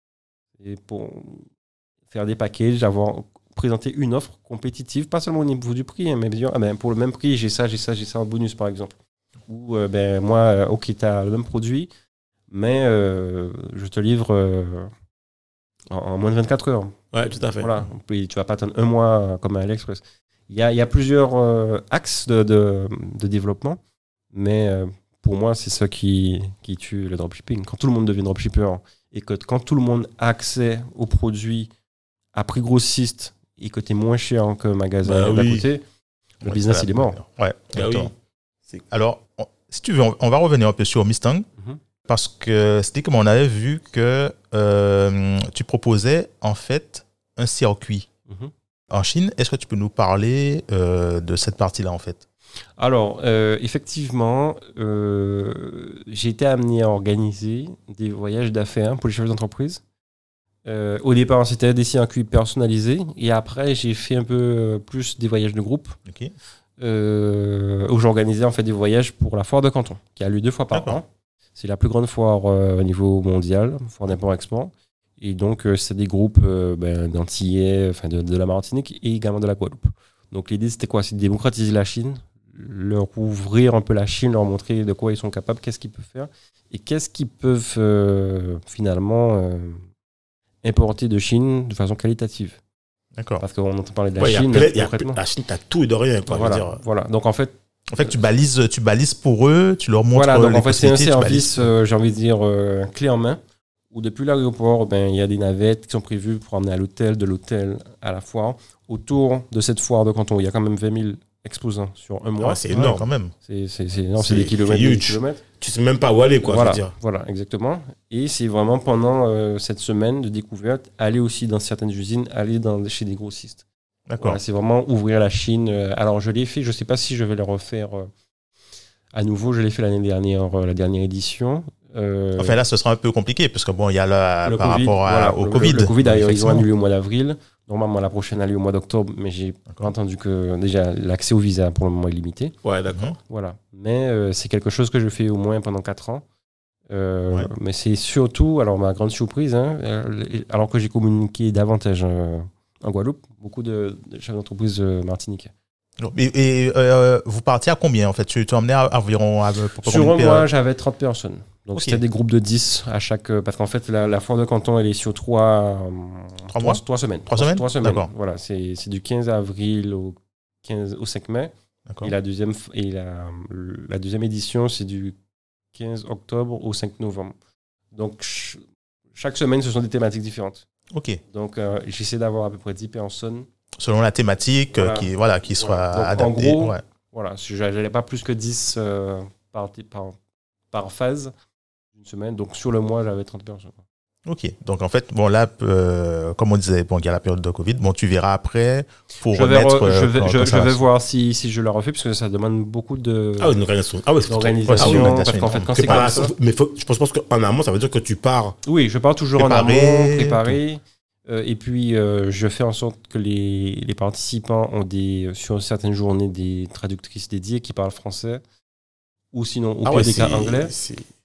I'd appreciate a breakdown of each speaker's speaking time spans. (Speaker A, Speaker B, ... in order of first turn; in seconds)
Speaker A: 0.6-1.5, 2.1-8.9, 9.5-11.9, 12.5-14.9, 15.9-23.8, 24.3-31.7, 32.3-35.8, 36.4-37.2, 52.8-59.8, 60.7-66.0, 66.8-89.8, 90.6-92.6, 93.4-95.2, 96.3-98.1, 100.1-103.4, 103.9-112.6, 113.4-115.4, 116.4-123.6, 124.2-128.1, 129.1-132.6, 134.4-142.6, 143.3-146.2, 146.9-155.5, 159.8-175.2, 175.7-177.3, 177.9-178.6, 179.2-180.7, 181.3-183.5, 184.7-190.2, 190.7-191.3, 192.0-193.8, 199.3-203.6, 204.3-206.3, 208.7-218.4, 219.3-220.7
Speaker B: 17.1-17.7, 35.0-35.7, 37.7-38.1, 94.2-96.8, 112.4-113.1, 114.2-116.9, 142.6-143.2, 203.4-208.6, 219.8-221.1
Speaker C: 36.5-38.1, 38.9-41.5, 42.1-48.1, 48.9-52.2, 66.1-66.3, 70.7-71.0, 93.2-93.4, 97.9-101.7, 112.7-113.3, 124.1-124.4, 132.4-136.7, 156.0-160.5, 161.8-162.0, 166.5-168.1, 171.9-172.1, 180.9-181.2, 183.8-186.8, 194.3-200.8, 204.7-206.1, 209.4-210.6